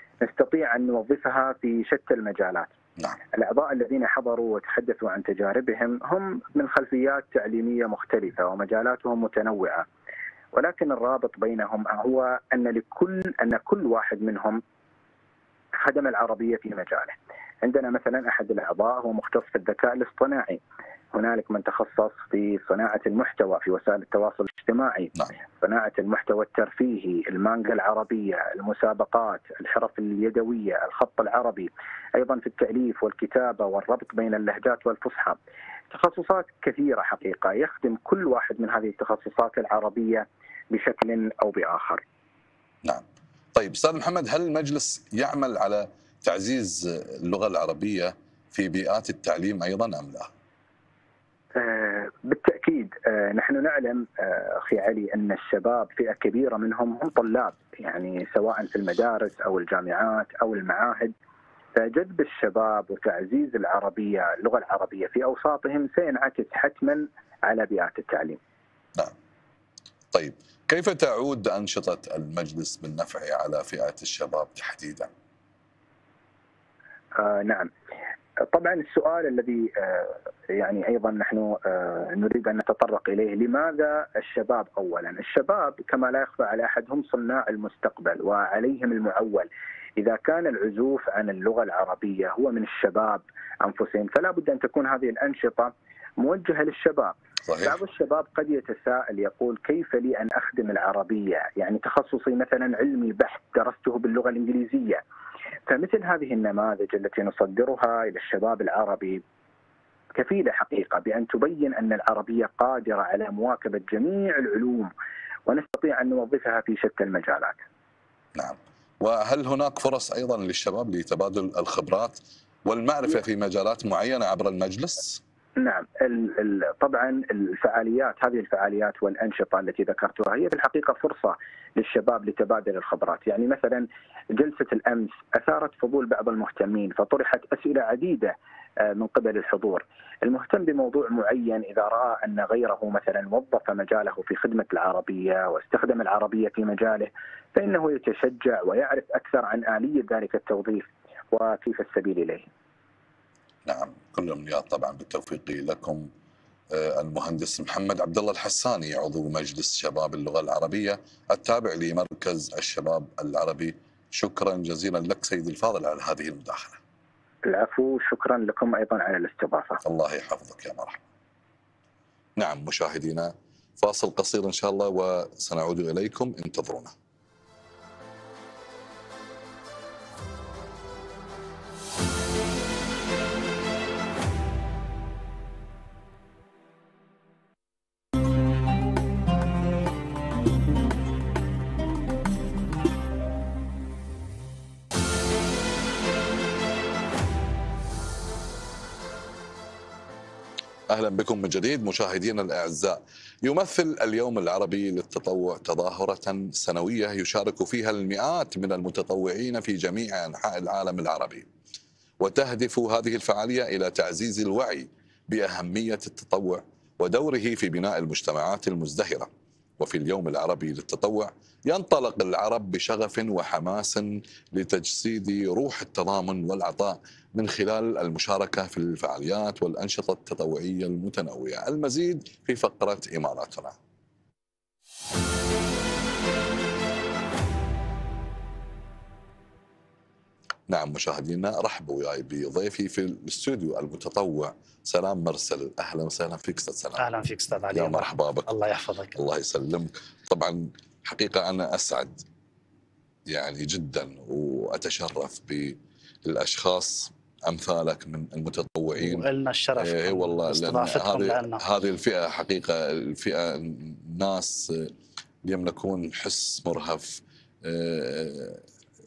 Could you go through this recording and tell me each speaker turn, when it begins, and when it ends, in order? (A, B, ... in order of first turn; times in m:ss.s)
0:00.2-0:02.7 A
0:03.3-0:09.9 A
0:10.5-0:14.6 A
0:15.8-0:20.6 A
0:21.1-0:35.4 A
0:35.9-0:42.0 A
0:42.8-0:50.3 B
0:51.6-1:01.1 A
1:01.8-1:08.4 A
1:10.1-1:15.1 B
1:17.2-1:17.7 A
1:18.5-1:45.0 A
1:37.4-1:37.7 B
1:45.7-1:49.2 A
1:50.2-1:54.9 A
1:55.5-1:57.6 A
1:58.3-2:05.2 B
2:05.6-2:32.5 A
2:33.6-2:36.1 B
2:36.7-2:46.8 B
2:47.4-2:49.8 A
2:49.8-2:51.0 B
2:52.4-2:56.9 B
3:20.9-3:31.5 B
3:32.2-3:53.8 B
4:00.7-4:07.1 B
4:07.0-4:09.2 C
4:07.7-4:08.6 B
4:09.1-4:12.2 B
4:13.3-4:24.9 B
4:19.0-4:21.6 C
4:25.4-4:28.6 B